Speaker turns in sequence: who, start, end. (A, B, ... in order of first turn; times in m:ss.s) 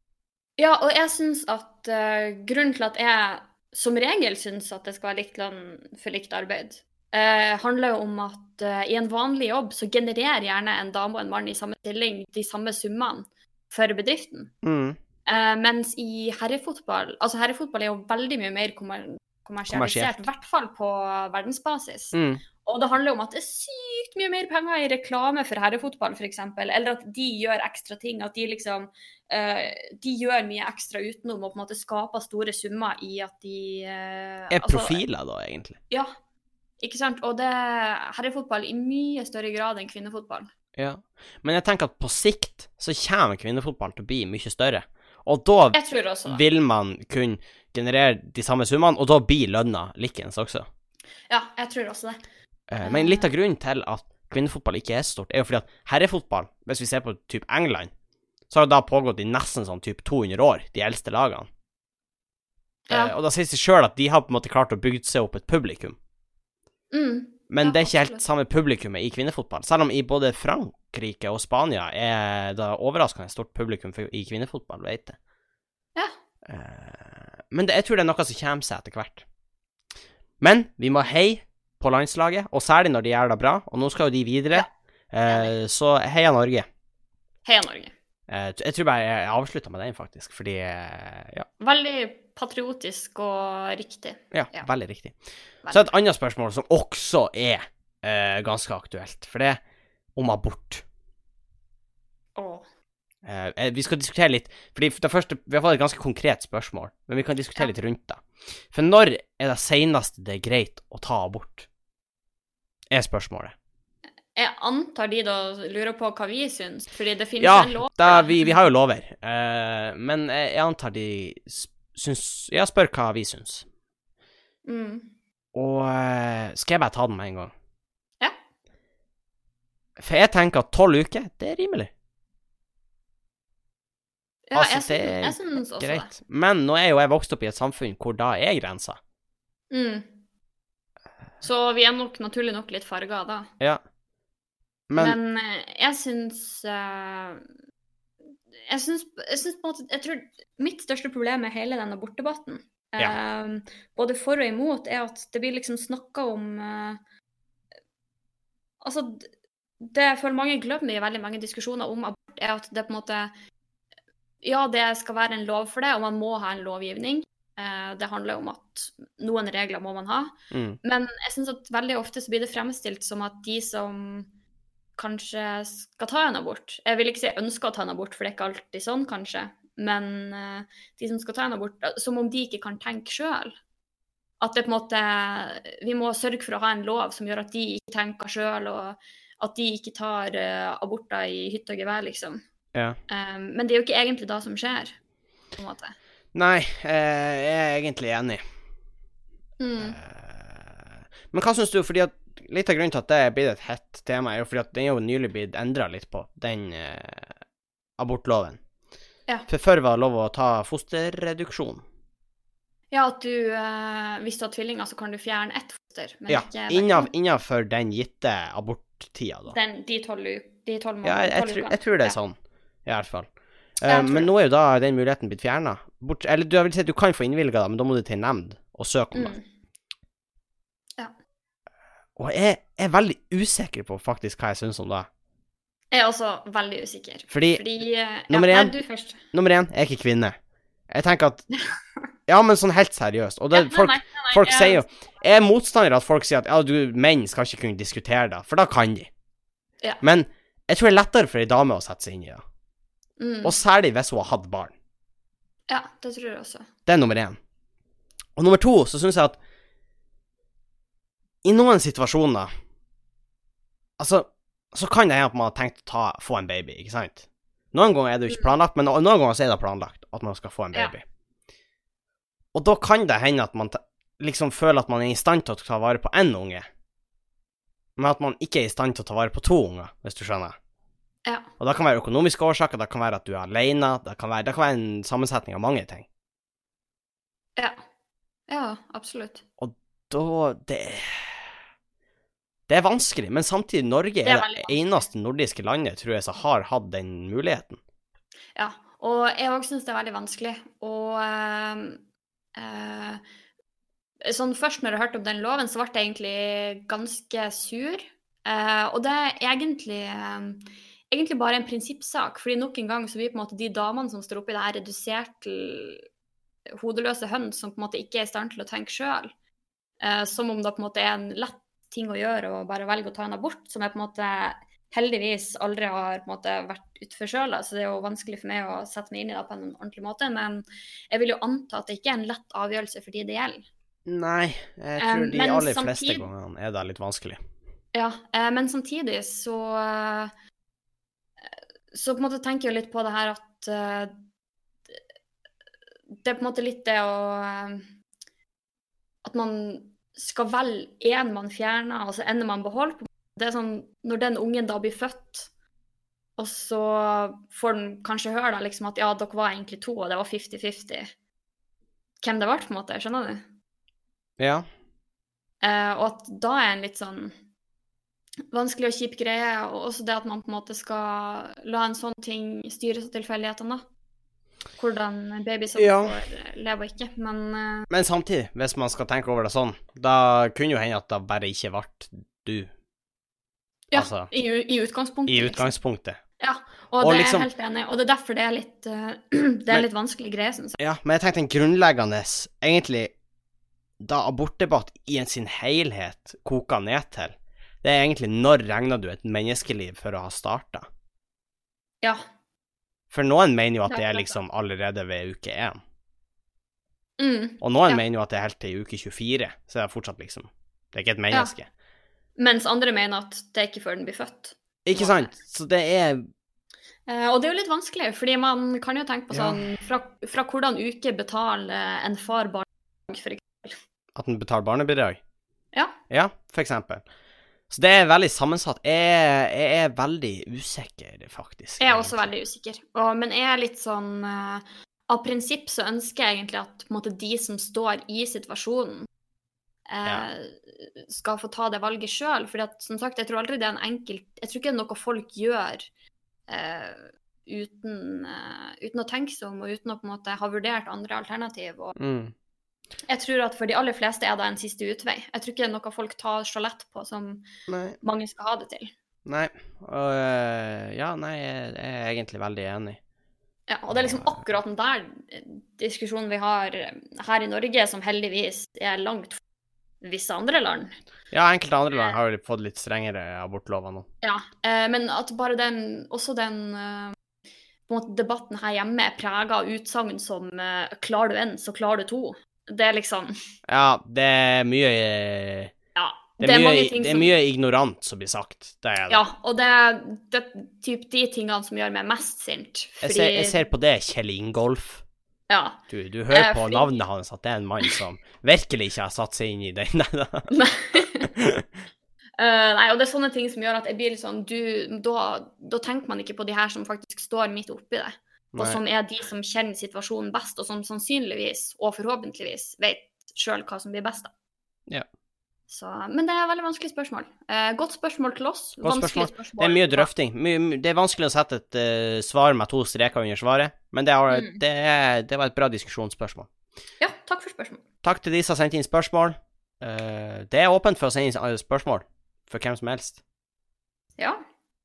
0:00.6-0:14.5 A
0:14.6-0:15.0 B
0:15.3-0:35.0 A
0:19.7-0:20.2 B
0:22.1-0:22.4 B
0:34.5-0:35.8 B
0:36.8-0:40.5 A
0:40.8-0:50.6 B
0:45.7-0:46.4 A
0:51.3-0:52.2 A
0:52.7-0:57.9 B
0:52.8-0:53.2 A
0:58.5-1:01.5 B
1:02.9-1:03.1 A
1:02.9-1:06.0 B
1:06.9-1:08.2 A
1:07.5-1:15.2 B
1:16.4-1:19.2 B
1:20.4-1:26.6 B
1:25.3-1:25.5 A
1:27.4-1:27.9 A
1:28.3-1:31.5 B
1:31.6-1:34.7 A
1:34.3-1:35.2 B
1:35.7-1:39.6 B
1:40.2-1:40.8 B
1:42.4-1:42.6 A
1:43.2-1:51.7 B
1:52.9-1:53.5 B
1:54.3-1:58.4 A
1:57.4-2:03.6 B
2:04.6-2:05.1 A
2:05.5-2:07.5 B
2:10.0-2:11.9 B
2:14.5-2:16.1 A
2:14.5-2:19.0 B
2:19.7-2:20.1 A
2:21.4-2:23.5 A
2:24.9-2:25.2 B
2:25.0-2:27.4 A
2:28.7-2:37.0 A
2:38.8-2:39.3 A
2:39.8-2:43.3 A
2:44.4-2:54.3 A
2:50.5-2:50.8 B
2:55.0-3:03.6 A
3:04.4-3:12.4 A
3:13.1-3:15.0 A
3:15.5-3:15.9 A
3:16.3-3:18.4 B
3:19.6-3:20.0 A
3:19.8-3:27.3 B
3:28.0-3:28.6 B
3:29.5-3:31.8 B
3:32.9-3:37.1 A
3:36.3-3:39.6 B
3:39.5-3:42.2 A
3:41.0-3:43.3 B
3:43.8-3:49.3 B
3:43.9-3:44.3 A
3:49.1-3:49.4 A
3:52.2-3:55.1 B
3:55.9-3:59.2 A
3:57.3-3:57.6 B
3:58.3-3:58.7 B
3:59.3-4:00.4 B
4:00.9-4:01.5 B
4:02.3-4:09.1 B
4:03.5-4:04.8 A
4:10.0-4:12.4 B
4:13.2-4:13.5 A
4:13.4-4:14.7 B
4:15.7-4:16.7 A
4:16.8-4:17.4 B
4:18.4-4:19.4 B
4:21.4-4:22.5 B
4:24.0-4:31.0 B
4:32.5-4:36.7 B
4:38.0-4:40.6 B
4:41.6-4:46.0 B
4:48.5-4:49.4 A
4:49.6-4:51.4 B
4:52.7-4:57.8 B
4:54.2-4:54.8 A
4:58.6-5:02.0 A
5:02.5-5:03.2 A
5:04.2-5:16.0 A
5:16.8-5:19.3 A
5:20.0-5:33.6 A
5:34.0-5:37.4 B
5:35.0-5:36.3 A
5:37.9-5:40.3 A
5:41.4-5:44.1 A
5:46.2-5:47.9 A
5:49.2-5:55.5 A
5:56.4-6:01.1 A
6:02.2-6:03.4 A
6:04.4-6:04.6 B
6:05.6-6:07.3 A
6:08.5-6:13.8 A
6:14.8-6:17.9 A
6:15.8-6:16.2 B
6:17.9-6:22.7 B
6:23.9-6:25.7 A
6:23.9-6:24.3 B
6:25.3-6:26.2 B
6:26.4-6:30.8 A
6:27.0-6:27.5 B
6:30.8-6:33.1 B
6:34.0-6:40.8 B
6:43.1-6:45.8 B
6:43.9-6:44.4 A
6:47.2-6:48.0 A
6:47.6-6:51.7 B
6:52.4-6:55.3 A
6:54.8-6:56.2 B
6:57.1-7:03.8 A
6:59.3-6:59.6 B
7:04.1-7:05.2 B
7:06.1-7:07.0 B
7:07.7-7:12.3 B
7:11.8-7:19.1 A
7:19.9-7:25.9 A
7:26.5-7:32.0 A
7:32.0-7:32.3 B
7:33.1-7:37.5 A
7:37.7-7:38.0 B
7:38.0-7:38.9 A
7:39.2-7:43.0 B
7:43.7-7:49.4 A
7:43.9-7:44.4 B
7:50.0-7:50.9 A
7:51.3-7:54.1 B
7:54.2-7:57.2 A
7:57.9-8:03.3 A
8:03.7-8:05.7 B
8:05.9-8:07.3 A
8:06.4-8:09.2 B
8:09.1-8:13.6 A
8:13.0-8:15.0 B
8:15.5-8:17.0 A
8:15.9-8:20.5 B
8:20.5-8:21.3 A
8:21.2-8:21.6 B
8:22.4-8:34.3 A
8:28.5-8:28.8 B
8:35.7-8:40.1 A
8:38.8-8:46.5 B
8:44.3-8:44.6 A
8:47.0-8:47.8 A
8:48.0-8:53.2 B